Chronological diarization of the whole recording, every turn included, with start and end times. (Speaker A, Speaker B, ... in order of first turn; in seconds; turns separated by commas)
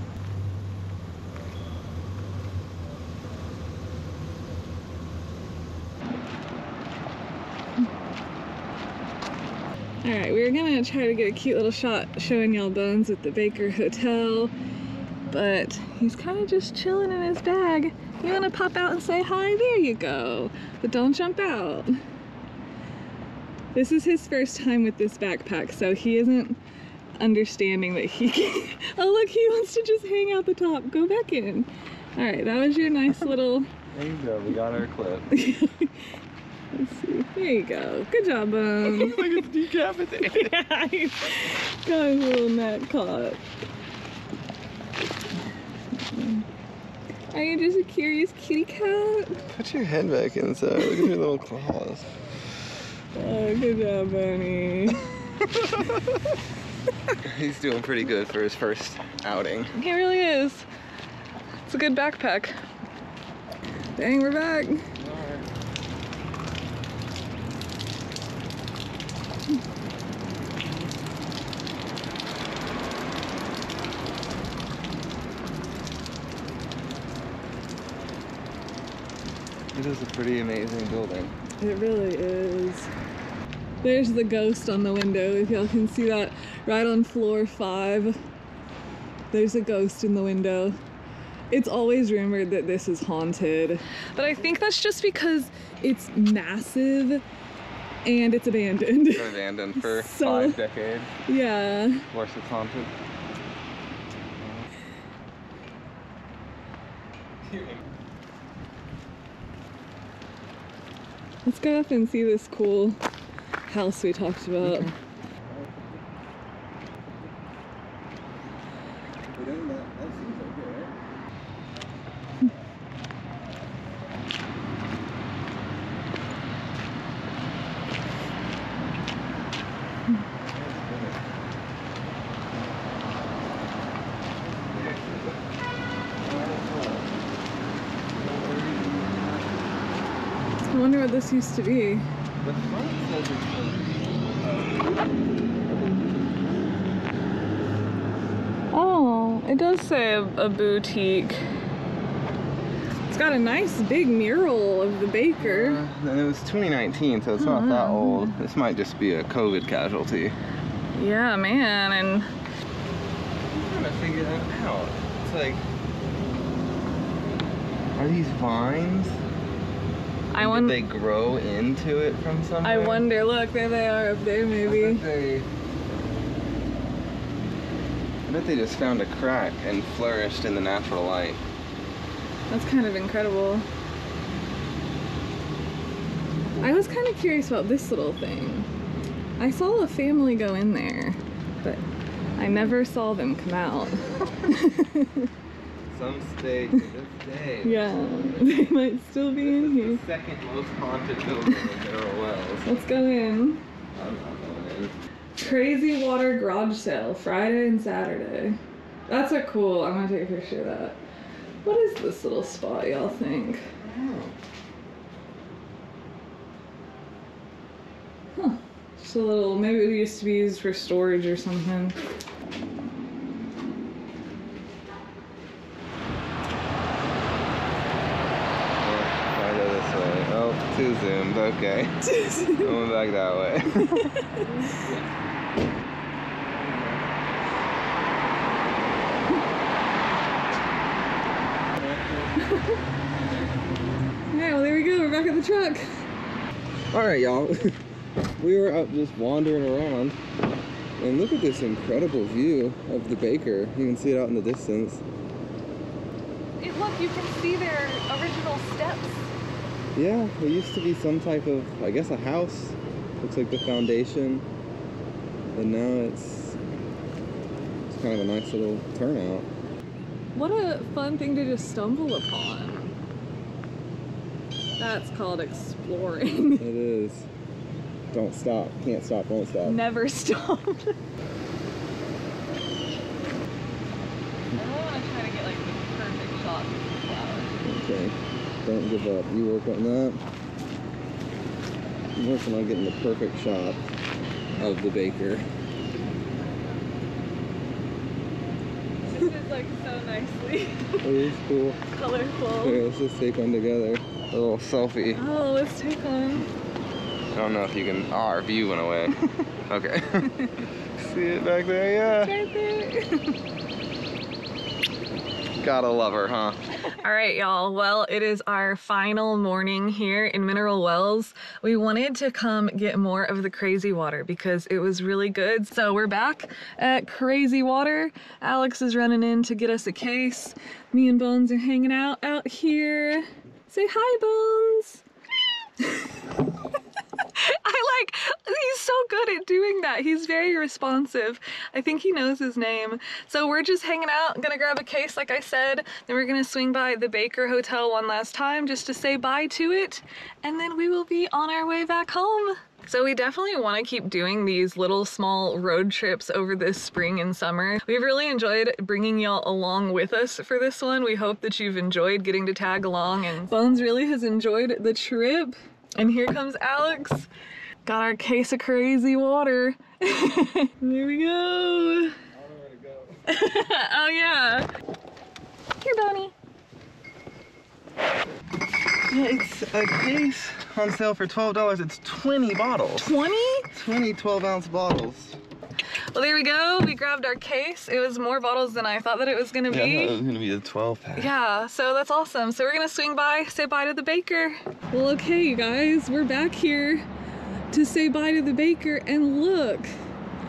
Speaker A: 10.0-14.5, Speaker A: 15.3-22.0, Speaker A: 23.7-26.6, Speaker A: 27.2-33.7, Speaker B: 33.9-35.3, Speaker A: 35.3-36.0, Speaker A: 36.7-39.4, Speaker B: 38.8-40.5, Speaker A: 40.2-43.4, Speaker A: 46.1-46.4, Speaker A: 47.3-49.4, Speaker B: 49.5-52.1, Speaker A: 53.1-55.1, Speaker B: 57.2-59.7, Speaker A: 59.7-60.7, Speaker A: 61.7-62.6, Speaker A: 64.0-64.9, Speaker B: 65.0-65.5, Speaker B: 79.7-81.3, Speaker A: 81.6-82.9, Speaker A: 83.8-88.2, Speaker A: 89.3-90.8, Speaker A: 91.5-97.2, Speaker A: 98.0-100.6, Speaker B: 99.1-101.1, Speaker A: 101.3-102.1, Speaker B: 102.1-102.9, Speaker B: 104.4-104.7, Speaker B: 107.4-107.8, Speaker A: 111.5-113.0, Speaker A: 113.7-114.9, Speaker B: 114.6-114.9, Speaker B: 115.5-115.8, Speaker B: 119.3-120.9, Speaker B: 130.5-131.2, Speaker B: 134.6-135.4, Speaker B: 136.2-137.1, Speaker B: 138.1-139.7, Speaker A: 140.7-142.1, Speaker B: 142.4-146.8, Speaker A: 148.7-151.4, Speaker A: 153.1-155.8, Speaker B: 155.4-160.4, Speaker A: 157.4-158.4, Speaker A: 160.9-162.3, Speaker B: 163.5-165.7, Speaker B: 168.0-169.2, Speaker A: 170.3-170.8, Speaker B: 170.4-173.1, Speaker A: 172.6-175.0, Speaker B: 174.6-175.5, Speaker B: 178.3-181.4, Speaker A: 182.5-183.7, Speaker A: 186.6-188.7, Speaker A: 189.4-191.8, Speaker A: 192.4-195.3, Speaker B: 195.9-198.5, Speaker A: 197.6-200.0, Speaker B: 199.4-202.7, Speaker A: 202.7-203.6, Speaker B: 203.9-205.0, Speaker A: 205.4-211.0, Speaker A: 211.6-213.7, Speaker B: 213.8-214.3, Speaker A: 218.3-222.0, Speaker B: 228.8-232.0, Speaker A: 232.0-232.8, Speaker B: 232.6-235.1, Speaker A: 234.0-234.5, Speaker B: 236.4-237.2, Speaker B: 241.6-242.4, Speaker A: 242.5-242.8, Speaker A: 244.3-245.9, Speaker B: 246.9-247.8, Speaker B: 248.4-250.2, Speaker B: 251.0-255.0, Speaker A: 256.6-259.3, Speaker B: 259.9-264.5, Speaker B: 265.5-266.6, Speaker B: 267.9-269.5, Speaker A: 270.4-273.0, Speaker A: 274.8-276.7, Speaker B: 276.6-277.3, Speaker B: 278.1-279.8, Speaker A: 279.6-281.0, Speaker A: 284.5-287.6, Speaker B: 287.6-290.2, Speaker B: 292.2-293.8, Speaker B: 294.6-295.4, Speaker A: 299.1-301.1, Speaker B: 301.0-301.8, Speaker A: 301.8-302.8, Speaker B: 302.6-305.2, Speaker A: 305.2-306.5, Speaker B: 307.3-310.3, Speaker B: 310.9-312.4, Speaker A: 312.2-313.3, Speaker B: 315.6-316.6, Speaker A: 316.9-335.0, Speaker A: 335.8-336.1, Speaker A: 337.2-367.3, Speaker A: 367.9-372.2, Speaker B: 372.3-373.2, Speaker A: 373.3-374.7, Speaker A: 375.8-376.3, Speaker B: 379.1-383.2, Speaker A: 383.0-383.7, Speaker B: 383.7-385.4, Speaker A: 386.1-390.2, Speaker B: 389.7-391.3, Speaker A: 391.2-397.1, Speaker A: 397.7-399.9